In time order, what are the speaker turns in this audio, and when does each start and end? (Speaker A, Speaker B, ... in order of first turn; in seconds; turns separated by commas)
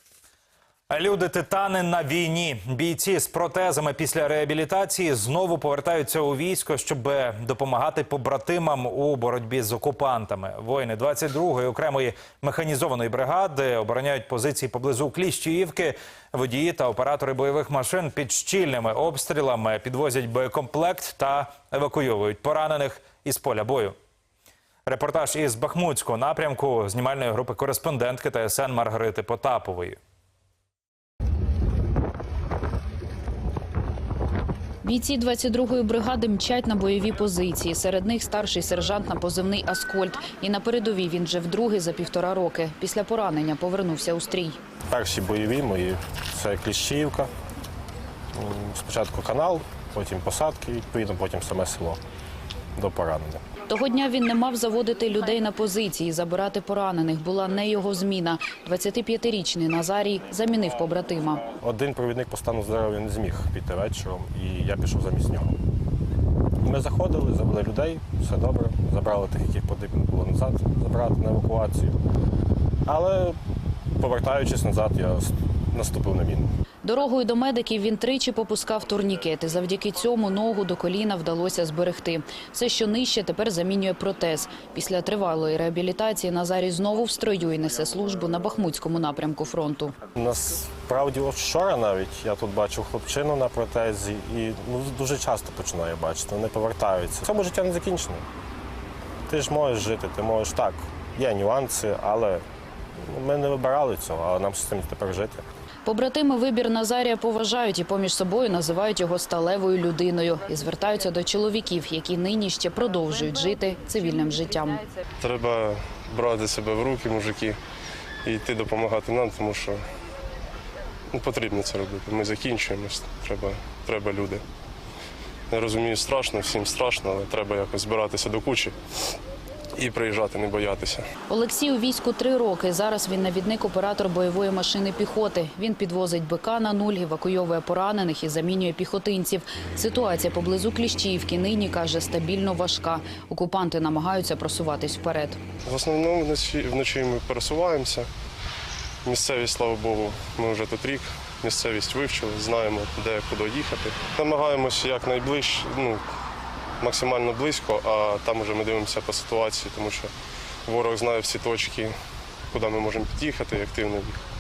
Speaker A: 0.9-23.9, Speaker A: 24.9-30.0, Speaker B: 34.8-44.6, Speaker C: 44.9-47.3, Speaker C: 48.3-52.0, Speaker C: 52.8-53.4, Speaker B: 53.7-61.4, Speaker C: 61.6-65.5, Speaker C: 66.6-72.0, Speaker C: 72.8-73.4, Speaker C: 74.0-76.5, Speaker B: 76.8-90.0, Speaker C: 90.1-98.2, Speaker C: 99.3-102.4, Speaker C: 103.0-105.4, Speaker B: 105.8-114.8, Speaker D: 115.2-117.6, Speaker D: 118.2-119.8, Speaker D: 121.1-124.4, Speaker D: 125.5-128.8, Speaker D: 129.8-131.0, Speaker B: 131.3-145.4, Speaker D: 145.6-148.1, Speaker D: 149.0-156.0, Speaker D: 156.8-160.1, Speaker D: 160.7-161.9, Speaker D: 162.5-164.2